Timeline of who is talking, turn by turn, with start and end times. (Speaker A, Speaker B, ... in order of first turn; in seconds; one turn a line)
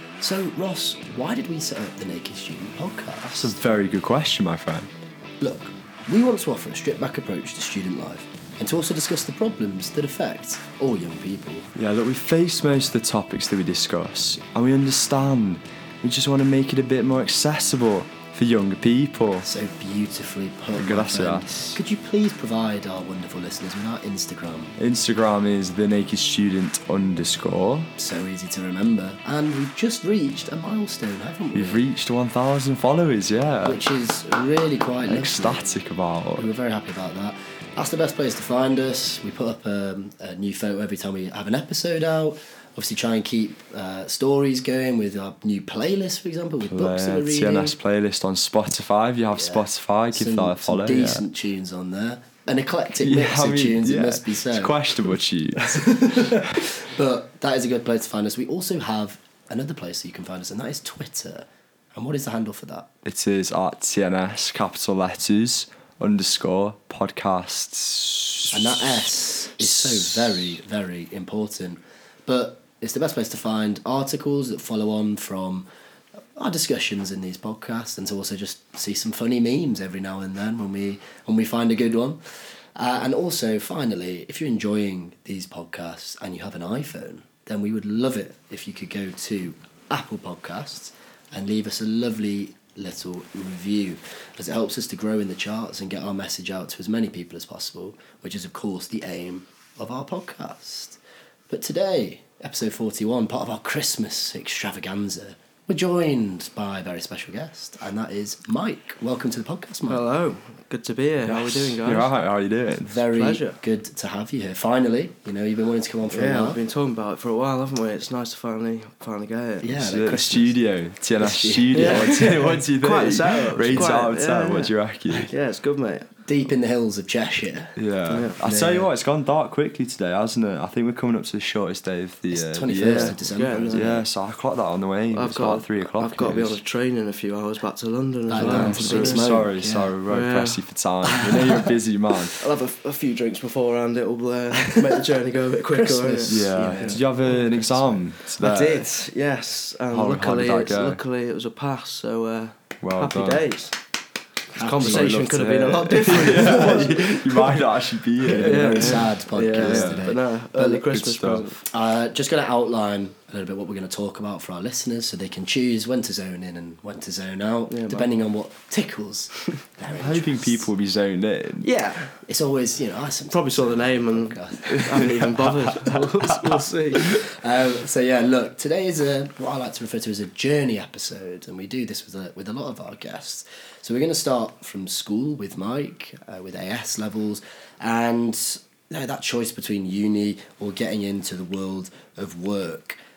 Speaker A: 0.2-3.5
Speaker B: 3.3-4.9
Speaker A: 5.4-11.7
Speaker B: 11.7-19.5
Speaker A: 19.4-24.7
Speaker B: 20.8-21.8
Speaker B: 24.8-27.9
Speaker A: 28.0-31.8
Speaker B: 31.5-33.8
Speaker A: 33.6-35.7
Speaker B: 35.0-36.5
Speaker A: 36.4-47.8
Speaker B: 46.7-51.2
Speaker A: 49.3-62.9
Speaker B: 53.0-56.7
Speaker B: 63.0-70.5
Speaker A: 68.5-75.7
Speaker A: 76.3-101.0
Speaker A: 101.5-110.0
Speaker C: 109.9-112.1
Speaker B: 111.2-112.9
Speaker A: 112.8-116.6
Speaker C: 113.1-113.6
Speaker C: 116.1-119.7
Speaker A: 119.6-120.6
Speaker B: 119.7-125.3
Speaker A: 121.2-122.2
Speaker C: 121.7-126.1
Speaker A: 123.7-123.9
Speaker A: 126.2-127.8
Speaker B: 127.8-133.2
Speaker C: 128.1-128.3
Speaker A: 128.4-128.9
Speaker A: 132.3-134.0
Speaker C: 132.9-134.0
Speaker B: 133.7-136.6
Speaker C: 135.1-139.3
Speaker A: 138.3-139.9
Speaker B: 138.3-142.4
Speaker C: 140.1-140.6
Speaker A: 141.0-141.7
Speaker C: 142.4-147.0
Speaker A: 144.6-145.1
Speaker A: 145.6-148.0
Speaker B: 146.3-148.9
Speaker C: 148.4-153.7
Speaker B: 149.9-151.0
Speaker B: 152.8-153.4
Speaker A: 154.6-155.3
Speaker C: 154.6-157.6
Speaker B: 154.8-160.1
Speaker A: 156.1-157.1
Speaker A: 158.2-160.9
Speaker C: 158.3-161.6
Speaker B: 160.9-161.5
Speaker A: 161.6-170.7
Speaker C: 167.7-168.1
Speaker B: 169.9-171.7
Speaker C: 171.6-172.1
Speaker A: 172.2-175.1
Speaker C: 173.3-177.1
Speaker B: 174.7-177.2
Speaker A: 177.0-193.0